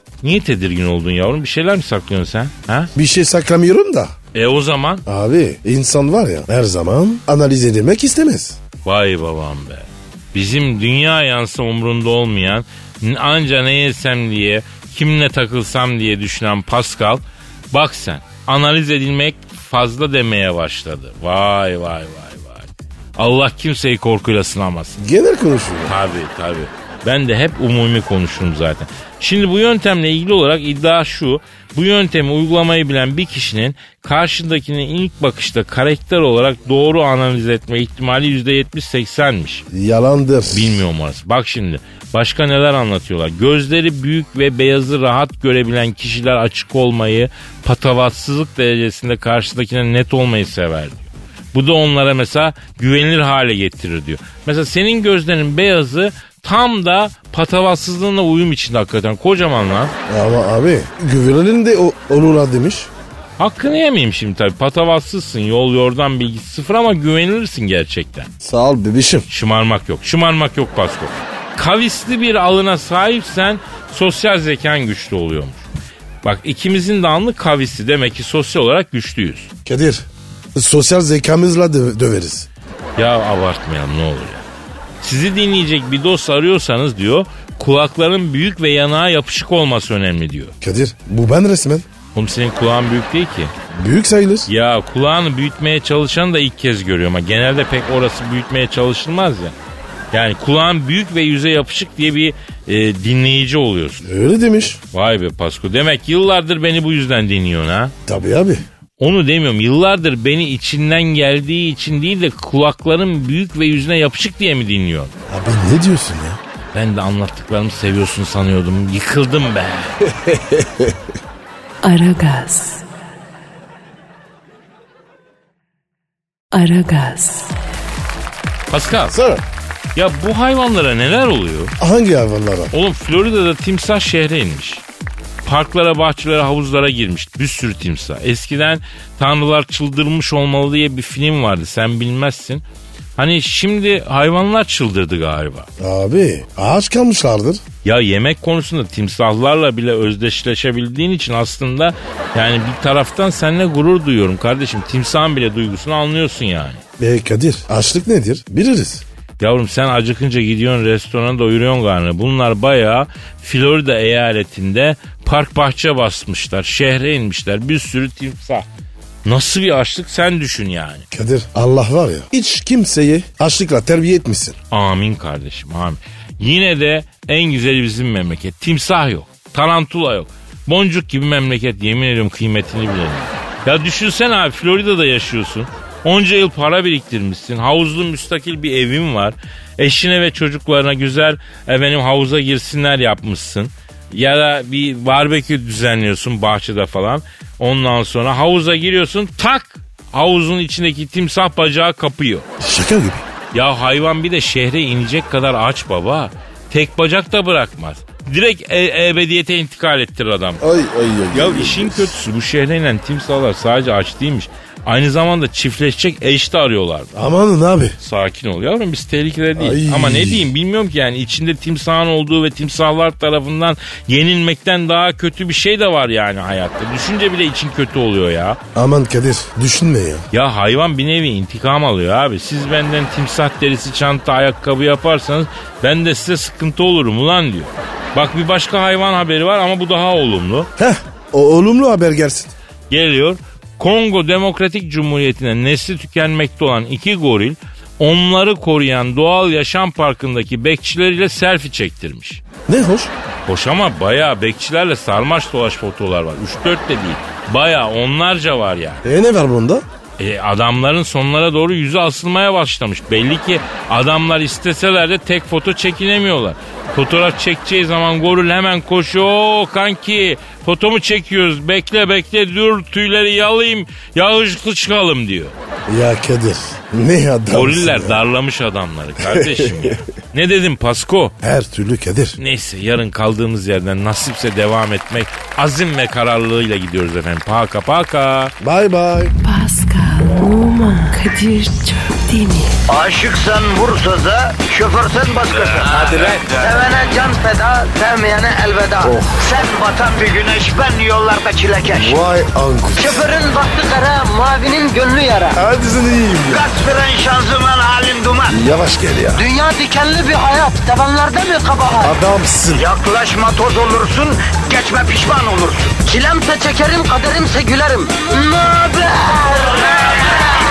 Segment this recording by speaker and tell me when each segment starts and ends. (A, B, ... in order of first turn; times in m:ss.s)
0:00.2-0:02.9 A
0:03.0-0:04.1 B
0:04.3-0:05.0 A
0:05.1-0:08.6 B
0:08.8-0:25.0 A
0:25.0-0:25.9 B
0:25.9-0:39.7 A
0:39.7-0:40.8 B
0:40.5-0:59.9 A
1:00.1-1:02.9 B
1:03.4-1:08.3 A
1:08.4-1:09.3 B
1:09.3-1:15.7 A
1:16.2-1:19.5 A
1:19.6-1:22.5 B
1:23.0-1:24.4 A
1:25.0-1:30.5 A
1:30.6-1:31.9 B
1:32.2-1:33.6 A
1:33.7-1:34.5 B
1:34.5-1:39.6 A
1:40.1-1:44.0 A
1:44.0-1:44.8 B
1:44.9-1:47.9 A
1:48.1-1:48.6 B
1:49.0-1:55.1 A
1:55.3-1:56.4 B
1:56.7-2:00.0 A
2:00.0-2:01.0 B
2:01.8-2:02.8 C
2:06.5-2:07.6 C
2:08.7-2:09.2 A
2:09.1-2:09.4 B
2:10.0-2:11.8 A
2:11.8-2:12.7 B
2:12.7-2:14.8 A
2:15.4-2:22.6 A
2:23.2-2:25.7 A
2:25.8-2:27.6 B
2:27.8-2:36.8 A
2:37.0-2:39.0 B
2:39.4-2:48.6 A
2:49.2-2:51.0 A
2:51.1-2:54.6 B
2:54.7-3:22.5 A
3:22.6-3:23.2 B
3:23.5-3:30.6 A
3:30.6-3:32.2 B
3:31.3-3:37.1 A
3:37.1-3:38.0 B
3:38.0-3:48.6 A
3:39.6-3:40.5 B
3:48.8-3:50.3 B
3:50.3-4:00.7 A
4:00.8-4:02.5 B
4:02.9-4:12.4 A
4:12.7-4:13.1 B
4:13.5-4:19.0 A
4:19.0-4:19.8 B
4:20.2-4:35.5 A
4:35.9-4:38.2 B
4:37.5-4:41.4 A
4:39.2-4:40.0 B
4:41.4-4:42.4 B
4:42.4-4:48.5 A
4:48.6-4:49.3 B
4:49.4-4:52.8 C
4:52.9-5:02.2 D
4:55.5-4:56.5 A
4:55.9-4:56.4 B
4:59.0-4:59.4 B
5:01.9-5:03.3 B
5:03.0-5:05.6 D
5:05.5-5:06.7 B
5:06.5-5:08.6 D
5:08.5-5:09.5 B
5:09.3-5:12.2 D
5:12.0-5:12.9 B
5:12.7-5:20.4 D